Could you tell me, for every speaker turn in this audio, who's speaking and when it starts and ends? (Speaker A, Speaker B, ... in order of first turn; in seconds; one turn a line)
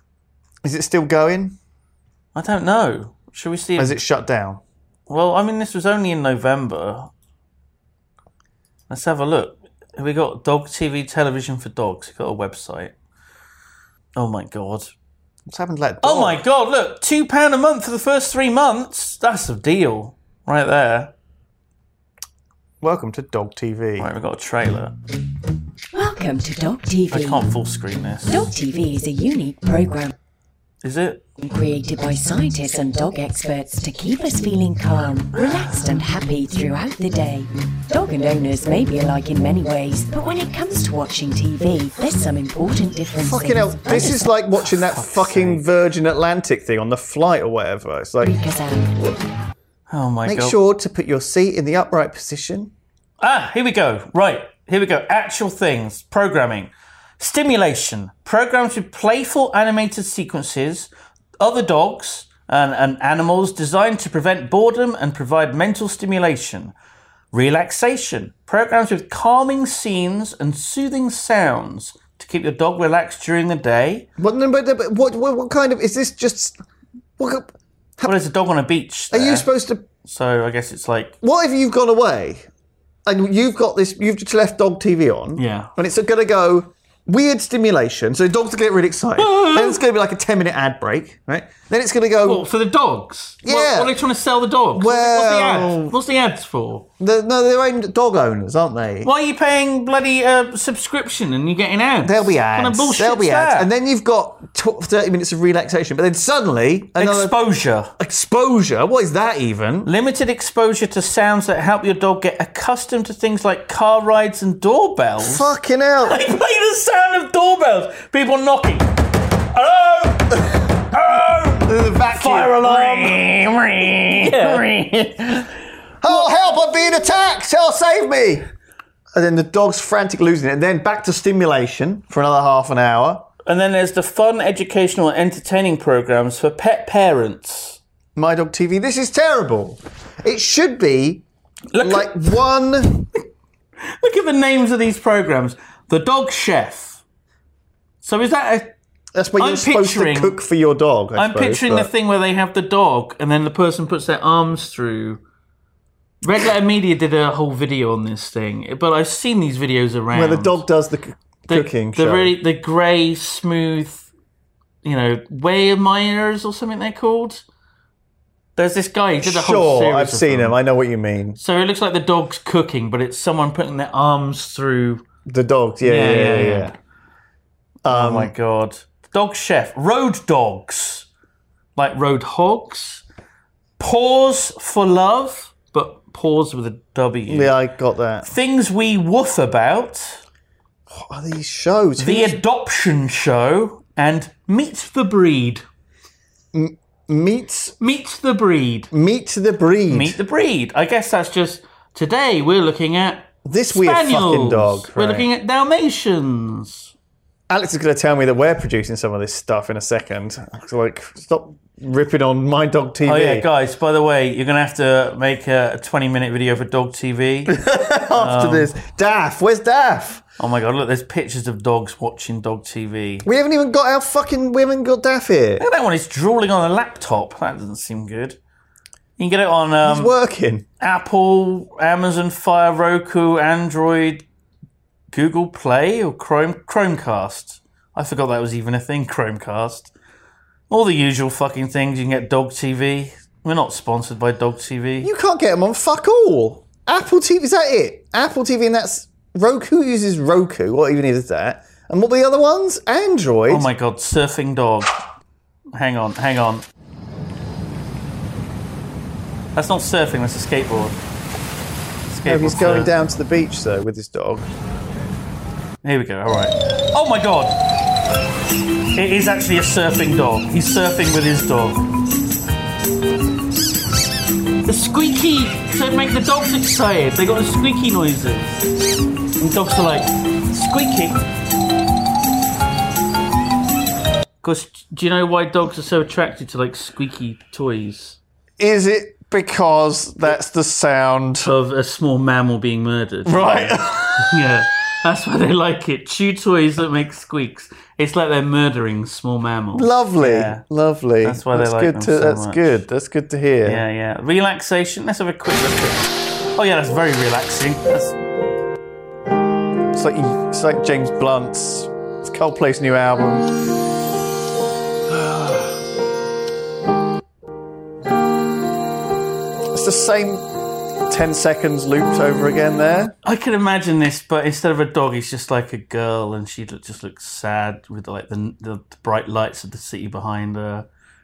Speaker A: 0.6-1.6
Speaker B: 2.3-4.0
Speaker A: 3.8-4.6
Speaker B: 5.1-7.1
Speaker B: 8.9-12.9
Speaker B: 14.2-14.9
Speaker A: 15.5-16.4
Speaker B: 16.0-21.1
Speaker A: 22.8-24.1
Speaker B: 24.0-24.9
Speaker C: 25.9-27.5
Speaker B: 27.1-28.4
Speaker C: 28.2-30.1
Speaker B: 30.8-31.3
Speaker C: 31.4-44.3
Speaker B: 35.4-35.9
Speaker A: 43.2-48.3
Speaker B: 44.6-45.6
Speaker C: 48.2-48.9
Speaker B: 49.9-50.6
Speaker A: 50.2-52.7
Speaker B: 53.2-66.7
Speaker B: 67.3-74.1
Speaker A: 74.2-76.6
Speaker A: 77.2-78.1
Speaker B: 78.0-79.5
Speaker A: 79.1-79.8
Speaker B: 80.0-81.2
Speaker A: 81.2-82.5
Speaker A: 83.1-92.5
Speaker B: 85.3-85.7
Speaker B: 89.2-89.8
Speaker B: 92.2-96.9
Speaker A: 93.4-94.0
Speaker A: 94.7-96.0
Speaker A: 97.0-99.1
Speaker B: 99.0-103.7
Speaker A: 102.0-107.4
Speaker B: 107.0-107.9
Speaker A: 108.0-109.9
Speaker B: 109.8-115.5
Speaker A: 115.2-116.2
Speaker B: 116.0-118.9
Speaker B: 119.5-125.0
Speaker A: 121.1-125.5
Speaker A: 126.0-128.4
Speaker B: 126.0-126.3
Speaker A: 129.1-133.3
Speaker B: 133.4-137.8
Speaker A: 138.2-141.2
Speaker B: 141.7-142.4
Speaker A: 141.8-143.1
Speaker B: 143.8-147.0
Speaker B: 148.0-148.7
Speaker A: 149.1-151.9
Speaker B: 149.4-150.4
Speaker B: 151.1-155.2
Speaker B: 156.2-160.6
Speaker A: 160.1-162.3
Speaker B: 161.5-164.1
Speaker B: 164.8-167.4
Speaker B: 168.6-170.6
Speaker A: 169.2-171.4
Speaker B: 171.4-175.0
Speaker A: 175.3-176.8
Speaker B: 175.8-176.7
Speaker A: 177.8-178.3
Speaker B: 177.9-181.1
Speaker B: 181.8-183.0
Speaker B: 183.8-187.6
Speaker A: 187.3-188.3
Speaker B: 188.2-190.2
Speaker A: 190.9-192.4
Speaker B: 192.0-195.6
Speaker A: 196.5-197.7
Speaker B: 197.8-198.9
Speaker A: 198.9-200.2
Speaker B: 199.9-206.9
Speaker A: 203.4-205.3
Speaker A: 207.5-213.5
Speaker B: 213.0-217.5
Speaker A: 217.5-220.2
Speaker B: 218.1-218.7
Speaker B: 220.4-223.2
Speaker A: 223.2-225.6
Speaker B: 225.6-228.4
Speaker B: 229.2-230.2
Speaker A: 229.8-230.7
Speaker B: 230.8-234.2
Speaker B: 235.1-239.9
Speaker B: 240.7-245.1
Speaker A: 245.0-253.7
Speaker B: 253.5-254.9
Speaker B: 255.7-256.6
Speaker B: 259.6-261.0
Speaker B: 262.1-262.9
Speaker A: 262.2-264.5
Speaker B: 265.8-267.6
Speaker B: 268.9-271.8
Speaker B: 274.6-278.7
Speaker B: 279.4-281.2
Speaker B: 284.4-288.2
Speaker A: 288.6-291.5
Speaker B: 291.4-300.6
Speaker A: 293.2-294.4
Speaker A: 299.7-303.8
Speaker B: 301.2-302.8
Speaker B: 303.6-308.2
Speaker A: 309.9-313.5
Speaker A: 315.1-315.7
Speaker A: 319.7-320.5
Speaker A: 321.1-323.1
Speaker B: 323.2-330.9